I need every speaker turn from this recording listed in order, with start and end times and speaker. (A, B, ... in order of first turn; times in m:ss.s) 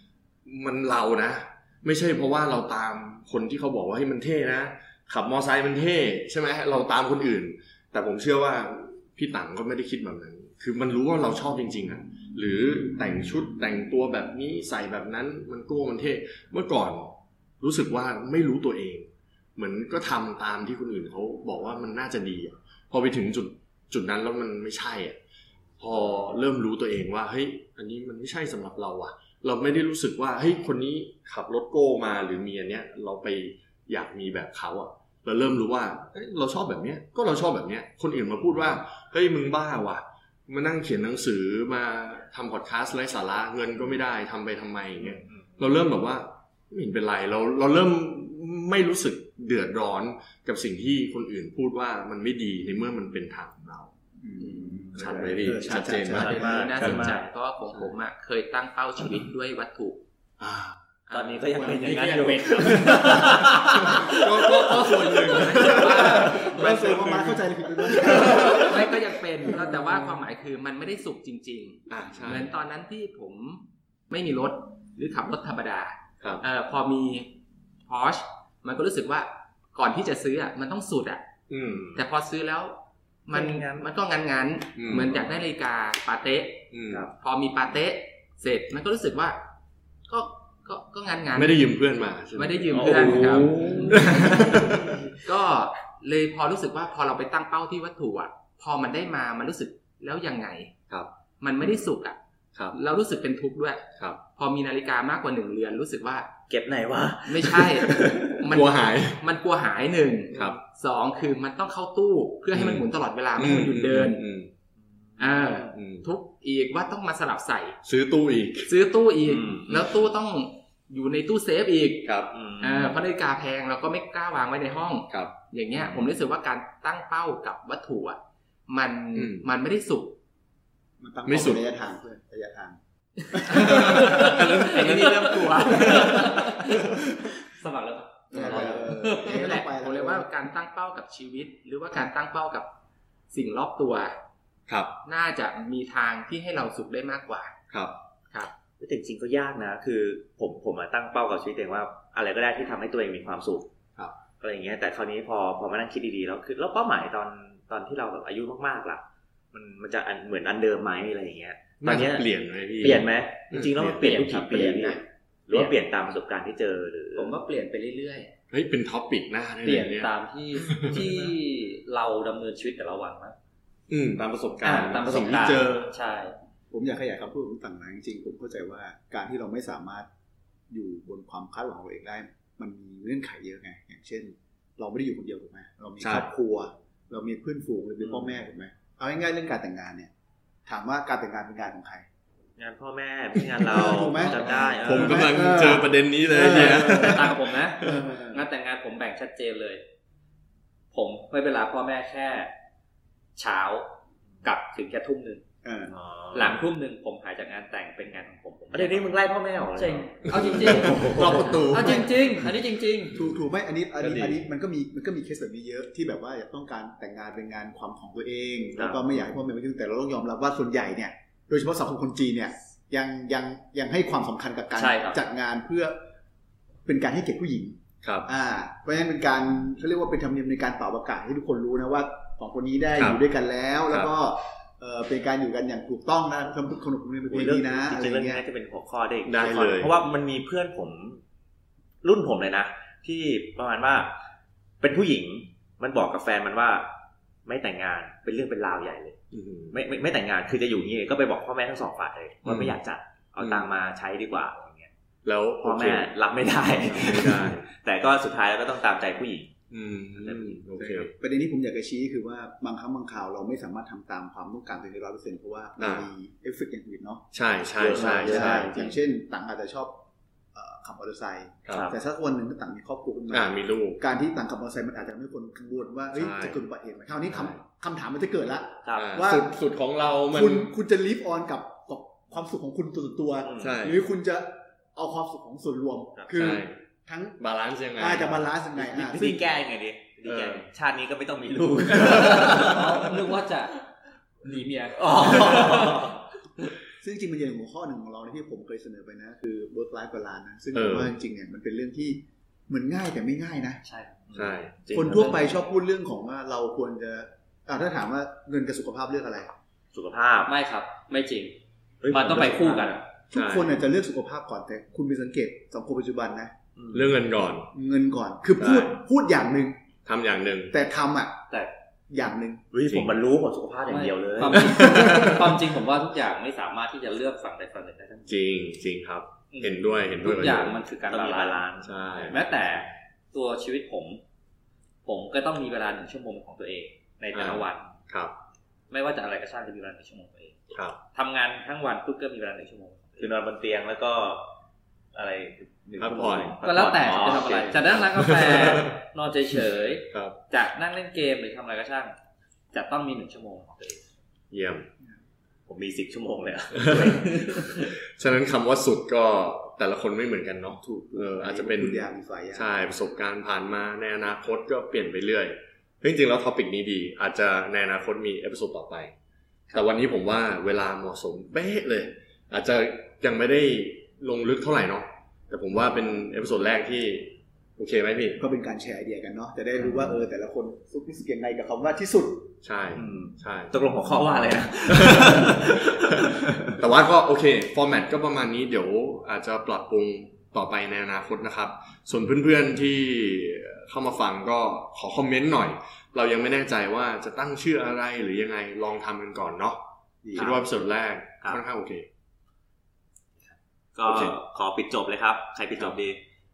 0:00.4-0:25.2 A
0:25.8-0:53.9 A
0:45.0-0:45.5 B
0:54.2-0:56.6 C
0:55.0-0:57.1 A
0:55.0-0:55.3 B
0:56.1-1:00.0 D
0:56.2-0:57.3 B
1:00.4-1:00.8 A
1:01.1-1:03.3 D
1:01.1-1:04.9 B
1:03.4-1:07.3 A
1:05.3-1:07.4 D
1:06.0-1:09.5 C
1:08.0-1:17.3 D
1:09.8-1:10.2 A
1:11.9-1:12.5 A
1:17.9-1:21.2 D
1:21.5-1:21.9 A
1:21.6-1:22.0 B
1:21.9-1:29.4 D
1:23.3-1:23.9 B
1:24.8-1:25.2 A
1:26.7-1:27.1 A
1:30.1-1:31.6 D
1:31.3-1:34.9 A
1:32.3-1:34.5 D
1:32.7-1:35.1 B
1:35.2-1:40.7 D
1:41.4-1:42.2 D
1:42.7-1:46.3 D
1:46.5-1:48.4 B
1:47.3-1:54.2 D
1:48.4-1:49.2 A
1:50.3-1:50.6 A
1:52.5-1:54.5 A
1:54.8-1:55.7 B
1:55.2-1:57.8 D
1:55.7-1:56.0 A
1:57.8-1:58.8 A
1:58.7-2:10.2 D
1:59.2-1:59.8 B
1:59.7-2:00.0 A
2:02.0-2:02.5 A
2:02.3-2:03.0 B
2:05.1-2:05.4 A
2:05.7-2:06.1 B
2:09.1-2:09.5 A
2:11.0-2:12.8 C
2:11.2-2:11.7 A
2:13.3-2:14.5 C
2:13.5-2:16.5 D
2:13.7-2:16.0 A
2:15.6-2:19.5 E
2:15.8-2:16.4 C
2:18.3-2:20.3 C
2:18.4-2:18.8 A
2:19.3-2:22.7 D
2:23.3-2:24.1 D
2:24.7-2:24.9 A
2:25.0-2:27.5 D
2:27.7-2:28.0 A
2:28.8-2:33.7 B
2:34.4-2:42.2 B
2:41.8-2:44.0 A
2:42.8-2:47.4 B
2:43.9-2:45.0 E
2:47.2-2:48.3 D
2:48.5-2:51.0 A
2:49.6-2:53.4 E
2:50.9-2:51.3 B
2:53.9-2:55.9 A
2:54.6-2:56.4 E
2:56.7-3:00.1 C
3:00.7-3:10.1 C
3:06.0-3:06.3 A
3:08.0-3:08.3 B
3:10.6-3:12.0 C
3:12.6-3:15.3 B
3:13.5-3:18.4 C
3:14.8-3:18.0 A
3:16.4-3:19.8 E
3:20.9-3:22.5 E
3:23.4-3:23.9 E
3:24.4-3:25.4 E
3:25.6-3:25.9 C
3:25.9-3:26.6 B
3:26.3-3:29.1 E
3:28.7-3:32.0 B
3:29.7-3:33.2 E
3:30.3-3:31.9 A
3:30.9-3:32.2 C
3:33.1-3:46.0 C
3:34.0-3:34.4 A
3:44.7-3:45.2 E
3:46.8-3:58.4 C
3:48.0-3:48.3 A
3:53.0-3:53.2 A
3:57.3-4:01.2 B
3:59.2-3:59.9 A
4:02.0-4:04.1 B
4:04.8-4:06.9 B
4:07.4-4:09.2 B
4:09.3-4:09.8 A
4:09.7-4:14.9 B
4:12.4-4:12.8 A
4:13.4-4:13.7 A
4:15.2-4:16.1 A
4:15.6-4:19.5 B
4:16.7-4:17.7 A
4:19.7-4:21.1 A
4:20.1-4:20.6 B
4:20.8-4:27.2 C
4:25.8-4:26.1 A
4:27.3-4:28.7 A
4:27.8-4:29.0 B
4:27.8-4:30.0 C
4:30.5-4:39.6 C
4:31.7-4:32.0 B
4:33.3-4:34.0 A
4:36.1-4:36.6 A
4:37.3-4:37.6 A
4:38.8-4:39.2 B
4:38.9-4:40.7 A
4:40.3-4:47.4 C
4:43.4-4:43.8 B
4:43.6-4:44.0 A
4:46.3-4:46.8 A
4:47.4-4:48.6 A
4:48.0-4:49.5 C
4:48.7-4:53.1 B
4:50.2-4:50.7 A
4:51.9-4:53.8 E
4:54.4-4:56.0 E
4:55.0-4:56.2 B
4:57.0-5:03.8 C
5:00.7-5:01.1 A
5:03.8-5:04.2 E
5:04.3-5:05.5 B
5:04.3-5:04.7 A
5:04.9-5:09.5 C
5:04.9-5:05.3 E
5:09.9-5:10.5 B
5:10.4-5:11.6 E
5:12.0-5:12.9 B
5:12.1-5:13.0 E
5:13.3-5:16.5 C
5:13.3-5:13.8 A
5:16.8-5:17.1 B
5:16.9-5:17.7 A
5:17.7-5:19.7 C
5:18.6-5:19.0 A
5:20.0-5:20.8 A
5:20.7-5:21.4 C
5:22.1-5:22.6 C
5:22.7-5:24.9 B
5:22.9-5:23.2 A
5:23.9-5:28.3 E
5:24.5-5:25.6 A
5:28.3-5:30.8 A
5:29.5-5:31.6 E
5:31.1-5:31.9 B
5:31.8-5:32.7 A
5:32.2-5:34.2 E
5:35.0-5:37.9 E
5:37.3-5:38.3 A
5:38.9-5:40.6 E
5:40.7-5:41.0 A
5:41.1-5:43.3 E
5:43.2-5:44.5 B
5:45.1-5:47.9 B
5:46.0-5:46.6 A
5:46.6-5:52.2 E
5:47.3-5:49.0 A
5:50.1-5:50.4 A
5:52.7-5:54.0 E
5:54.5-5:54.8 A
5:55.7-5:57.8 B
5:56.7-6:09.1 A
6:00.8-6:02.7 C
6:09.7-6:18.4 A
6:18.4-6:22.5 C
6:19.8-6:20.2 B
6:22.6-6:23.8 A
6:22.9-6:26.7 B
6:24.9-6:25.4 A
6:26.8-6:39.8 A
6:40.2-6:40.6 C
6:40.3-6:42.1 A
6:44.0-6:46.2 B
6:44.0-6:44.4 A